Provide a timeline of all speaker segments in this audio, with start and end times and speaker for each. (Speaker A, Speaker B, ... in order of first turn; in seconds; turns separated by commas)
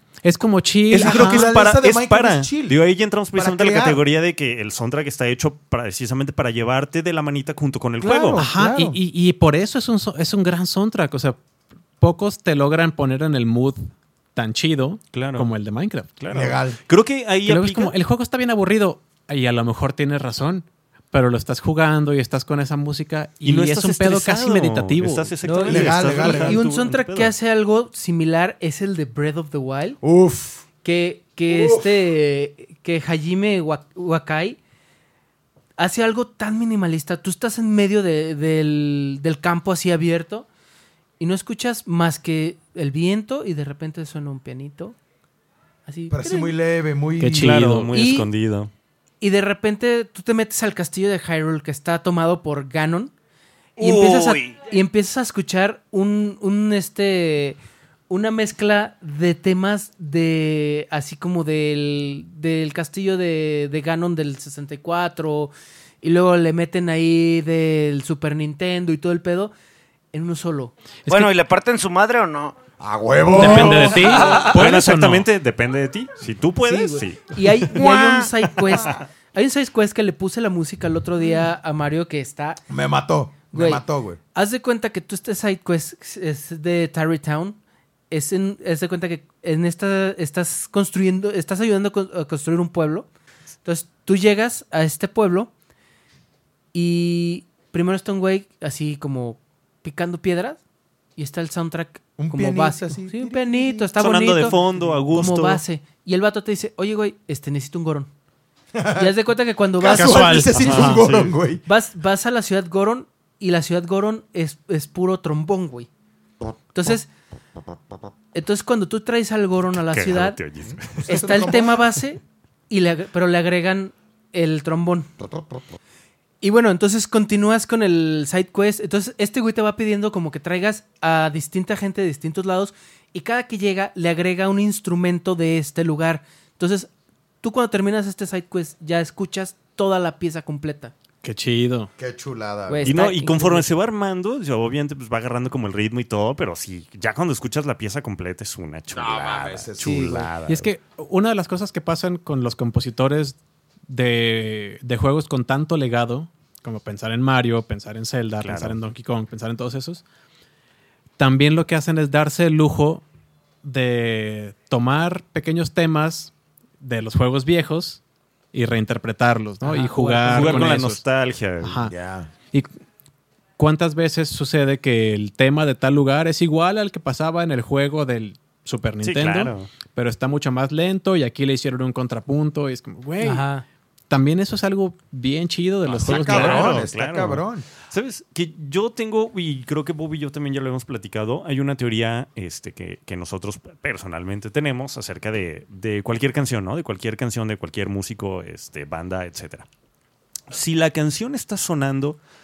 Speaker A: 0.2-1.5, Speaker B: 0.9-2.8, Speaker C: 0.9-8.4, Speaker B: 3.3-4.0, Speaker B: 8.0-9.0, Speaker A: 8.3-11.4, Speaker A: 12.0-16.2, Speaker C: 15.1-15.5, Speaker C: 16.2-17.9, Speaker B: 16.3-16.8, Speaker A: 17.4-25.3, Speaker C: 23.4-27.3, Speaker D: 25.4-30.0, Speaker B: 25.7-26.6, Speaker B: 30.0-30.6, Speaker D: 30.8-34.6, Speaker B: 31.5-31.9, Speaker D: 35.8-40.5, Speaker D: 41.2-45.0, Speaker D: 45.9-46.5, Speaker B: 46.1-47.5, Speaker A: 47.2-47.9, Speaker C: 47.3-48.7, Speaker D: 47.9-48.3, Speaker D: 49.2-53.1, Speaker E: 53.8-54.5, Speaker D: 53.8-57.6, Speaker D: 58.1-69.5, Speaker D: 70.1-70.7, Speaker A: 71.1-71.3, Speaker E: 71.1-72.5, Speaker B: 72.8-74.3, Speaker A: 73.3-75.3, Speaker C: 73.5-77.7, Speaker E: 74.0-74.5, Speaker D: 76.6-82.6, Speaker E: 77.8-78.1, Speaker B: 82.7-84.2, Speaker D: 83.5-87.6, Speaker D: 88.1-93.1, Speaker D: 93.6-95.5, Speaker D: 96.7-100.6, Speaker D: 101.2-108.1, Speaker B: 102.2-104.8, Speaker C: 104.0-105.6, Speaker B: 108.7-109.1, Speaker D: 108.9-110.8, Speaker B: 109.8-111.6, Speaker A: 109.9-111.0, Speaker C: 110.5-111.3, Speaker D: 111.6-115.9, Speaker D: 116.7-117.1, Speaker D: 118.3-120.4, Speaker C: 119.8-121.1, Speaker B: 120.6-121.9, Speaker D: 121.0-125.1, Speaker D: 126.4-136.9, Speaker D: 137.4-140.9, Speaker A: 141.2-141.9, Speaker B: 142.0-142.9, Speaker D: 142.7-143.7, Speaker C: 142.8-150.4, Speaker B: 148.9-150.7, Speaker D: 149.8-150.2, Speaker A: 150.4-153.4, Speaker A: 153.9-160.0, Speaker C: 158.4-158.8, Speaker A: 161.2-163.0, Speaker A: 163.6-168.0, Speaker A: 168.5-171.0, Speaker D: 169.6-170.8, Speaker C: 170.3-171.9, Speaker A: 171.6-171.9, Speaker B: 171.9-172.3, Speaker A: 173.6-183.5, Speaker C: 179.0-179.7, Speaker D: 183.2-183.6, Speaker A: 184.1-186.8, Speaker C: 185.9-199.7, Speaker B: 185.9-187.7, Speaker C: 200.5-202.2